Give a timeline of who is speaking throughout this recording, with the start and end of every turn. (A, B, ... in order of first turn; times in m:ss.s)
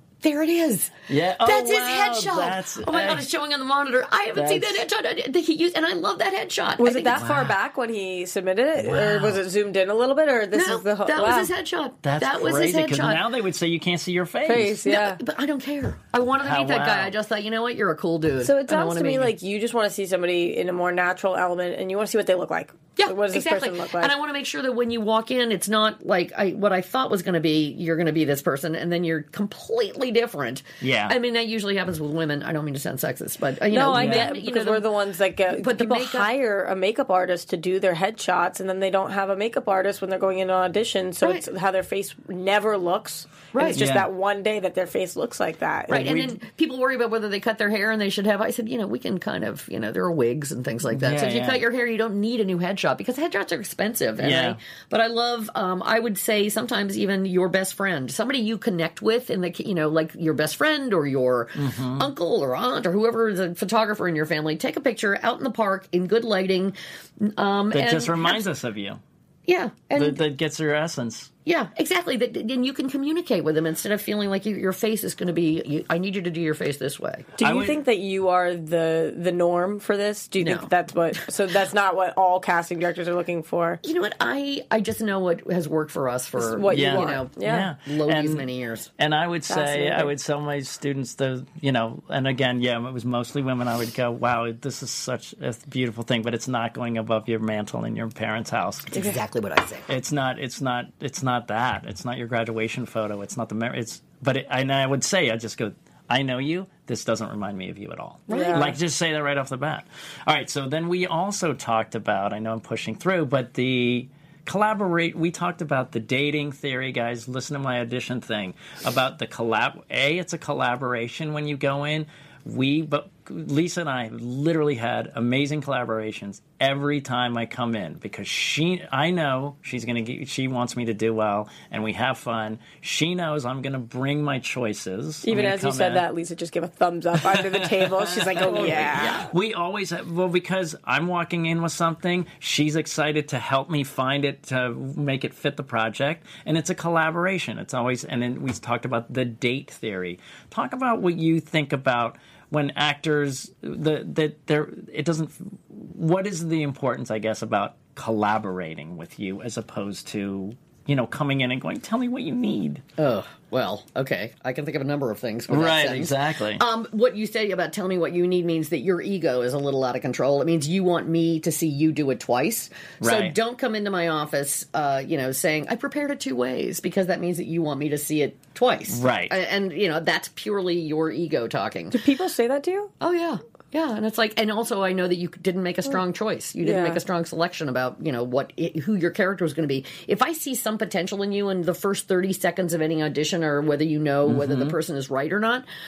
0:00.2-0:07.3 A
0:01.1-0:03.3 B
0:04.4-0:04.9 B
0:06.8-0:11.5 C
0:07.1-0:07.6 B
0:08.7-0:09.4 B
0:10.5-0:13.2 A
0:12.0-0:14.8 B
0:14.4-0:15.2 C
0:14.8-0:19.4 A
0:16.4-0:17.2 B
0:18.4-0:24.1 C
0:23.0-0:34.9 A
0:30.8-0:31.2 B
0:33.7-0:46.3 C
0:33.9-0:34.3 B
0:35.5-0:36.3 A
0:43.5-0:43.8 A
0:43.7-0:44.1 B
0:45.9-1:08.4 A
0:45.9-0:46.3 B
0:50.9-0:51.6 B
0:54.2-0:54.6 B
1:01.6-1:02.1 B
1:07.7-1:09.0 B
1:09.5-1:10.2 A
1:10.0-1:11.3 B
1:11.4-1:17.3 A
1:17.4-1:23.8 C
1:17.4-1:17.8 B
1:20.4-1:21.2 A
1:23.8-1:28.9 A
1:26.4-1:27.7 C
1:26.7-1:39.2 B
1:29.5-1:30.1 C
1:38.9-1:39.9 A
1:39.9-2:16.1 B
1:48.3-1:48.7 A
1:48.3-1:48.7 C
2:15.2-2:19.2 C
2:17.2-2:42.8 B
2:18.4-2:19.3 A
2:43.0-3:02.0 A
2:45.5-2:46.6 B
2:53.0-2:53.4 B
2:58.9-2:59.4 B
3:01.9-3:02.9 C
3:03.0-3:15.6 A
3:06.6-3:07.0 C
3:14.2-3:14.8 B